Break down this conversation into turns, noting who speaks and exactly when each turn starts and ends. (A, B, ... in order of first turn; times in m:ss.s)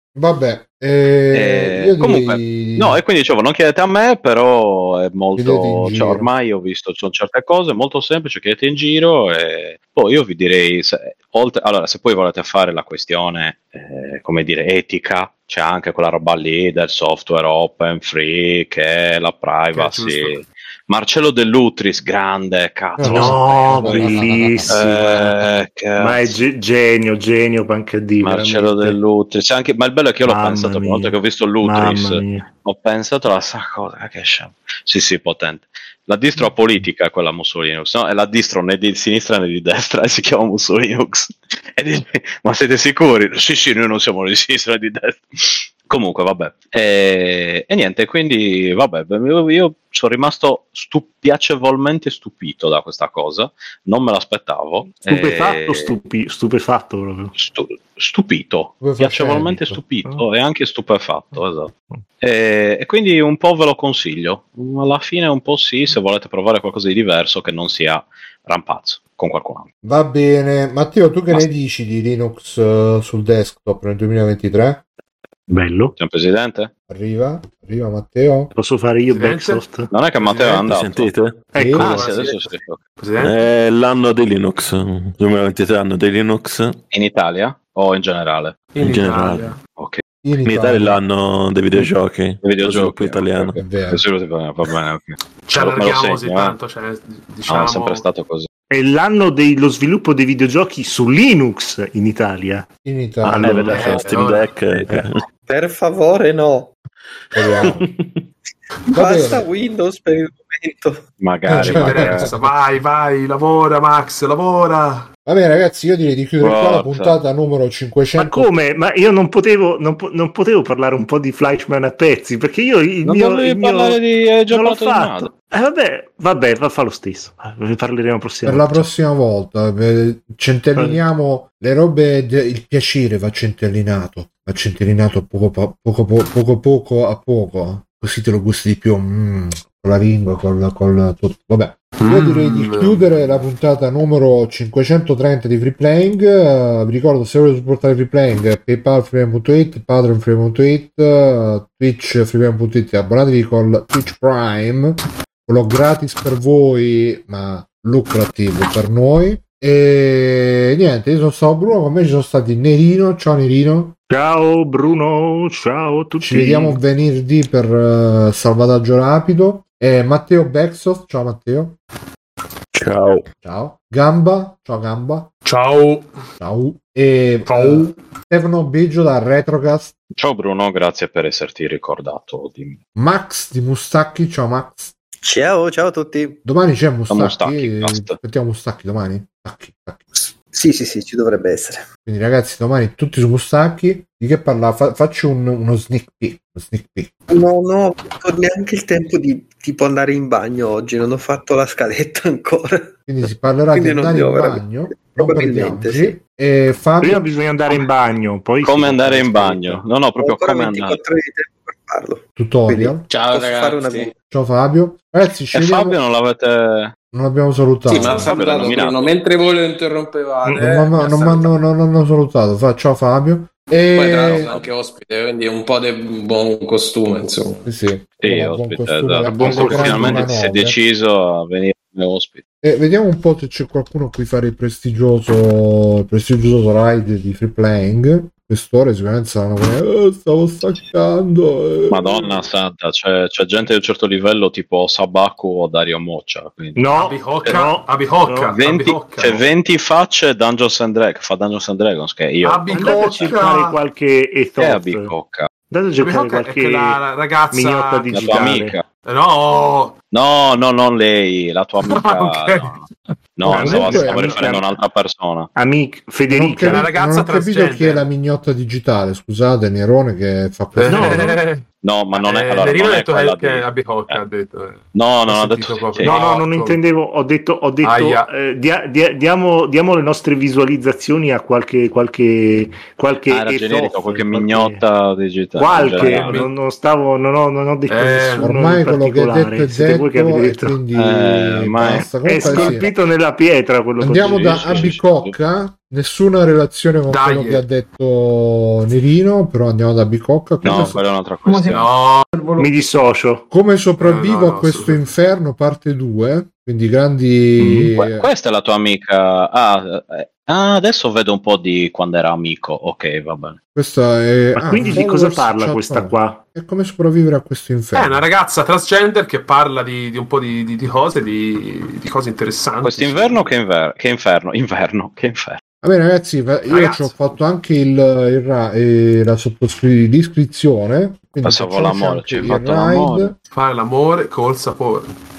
0:00.1-0:03.0 A
0:01.3-0:26.3 B
0:05.4-0:06.3 A
0:19.7-0:20.4 C
0:23.0-0:24.9 A
0:23.0-0:25.2 D
0:26.0-0:29.0 D
0:28.2-0:56.0 B
0:30.2-0:32.4 D
0:55.0-0:57.3 D
0:57.3-1:09.6 B
0:58.8-0:59.8 A
1:09.8-1:14.8 A
1:15.5-1:15.9 D
1:16.0-1:16.7 B
1:16.9-1:18.5 A
1:18.5-1:19.9 D
1:19.1-1:20.6 C
1:19.9-1:21.1 B
1:20.4-1:22.1 E
1:21.5-1:22.0 D
1:21.6-1:21.8 A
1:21.8-1:22.8 B
1:21.8-1:22.4 C
1:23.0-1:23.4 C
1:23.2-1:26.8 E
1:26.9-1:28.7 B
1:28.7-1:29.6 C
1:28.8-1:29.6 E
1:29.7-1:30.0 B
1:30.2-1:31.0 A
1:30.4-1:33.8 E
1:32.4-1:36.6 B
1:33.6-1:34.0 A
1:35.5-1:38.0 C
1:37.5-1:38.5 B
1:38.7-1:42.7 D
1:42.8-1:43.9 A
1:43.2-1:45.2 E
1:43.3-1:44.1 D
1:43.7-1:44.5 C
1:45.5-1:46.7 F
1:47.4-1:47.8 A
1:48.9-1:51.0 F
1:48.9-1:49.4 A
1:51.2-1:52.3 B
1:51.5-1:52.5 A
1:51.6-1:55.1 C
1:55.2-1:58.5 A
1:56.4-1:57.2 B
1:58.2-2:08.8 D
2:03.0-2:05.3 B
2:08.4-2:44.0 A
2:10.8-2:11.0 D
2:22.0-2:23.0 C
2:44.1-2:46.8 D
2:46.2-2:51.8 A
2:52.7-2:53.2 E
2:53.3-2:55.3 A
2:55.4-2:56.1 C
2:56.4-2:59.9 A
2:57.4-2:57.9 C
3:00.1-3:02.8 B
3:03.0-3:04.9 A
3:05.2-3:06.4 F
3:06.4-3:10.3 A
3:07.1-3:08.2 B
3:10.2-3:11.8 F
3:12.0-3:17.1 A
3:17.3-3:26.2 F
3:23.1-3:27.3 A
3:27.0-3:29.8 D
3:28.6-3:31.0 B
3:30.2-3:34.1 F
3:32.4-3:33.1 A
3:33.0-3:34.1 G
3:34.3-3:36.0 A
3:35.5-3:36.9 B
3:37.1-3:38.3 A
3:37.9-3:41.5 G
3:38.0-3:39.0 B
3:40.6-3:44.5 A
3:43.9-3:47.6 G
3:44.3-3:44.7 B
3:47.6-3:50.8 A
3:48.2-3:52.4 B
3:49.2-3:50.3 D
3:52.6-4:02.4 A
4:01.9-4:06.8 B
4:06.8-4:08.5 D
4:06.9-4:09.4 C
4:08.5-4:13.4 B
4:12.4-4:13.8 C
4:12.7-4:15.1 D
4:14.6-4:15.5 B
4:15.7-4:18.8 D
4:16.0-4:18.1 C
4:18.1-4:18.8 B
4:19.0-4:20.0 C
4:20.1-4:22.8 B
4:21.8-4:22.8 C
4:23.4-4:25.5 B
4:23.4-4:24.4 C
4:23.5-4:24.4 A
4:23.5-4:24.6 D
4:25.6-4:26.9 D
4:26.3-4:31.3 A
4:26.6-4:28.1 C
4:30.7-4:36.8 C
4:30.8-4:31.4 D
4:31.8-4:34.2 B
4:34.9-4:36.2 B
4:36.0-4:44.8 D
4:37.8-4:38.3 C
4:43.3-4:46.4 B
4:45.6-4:50.8 D
4:45.8-4:46.5 C
4:47.9-4:48.5 C
4:48.4-4:52.9 A
4:50.9-4:52.7 B
4:52.2-4:55.0 D
4:54.0-5:01.0 A
4:54.2-4:55.3 B
4:57.1-4:57.6 C
5:00.6-5:01.8 B
5:01.7-5:02.3 C
5:02.4-5:02.6 F
5:02.6-5:03.4 D
5:03.5-5:08.3 A
5:04.0-5:05.0 C
5:07.6-5:07.9 D
5:08.0-5:13.6 B
5:13.7-5:18.2 A
5:14.6-5:16.4 D
5:17.9-5:23.5 C
5:22.8-5:25.6 B
5:25.8-5:33.4 A
5:26.7-5:27.2 C
5:31.4-5:33.4 B
5:33.5-5:35.1 C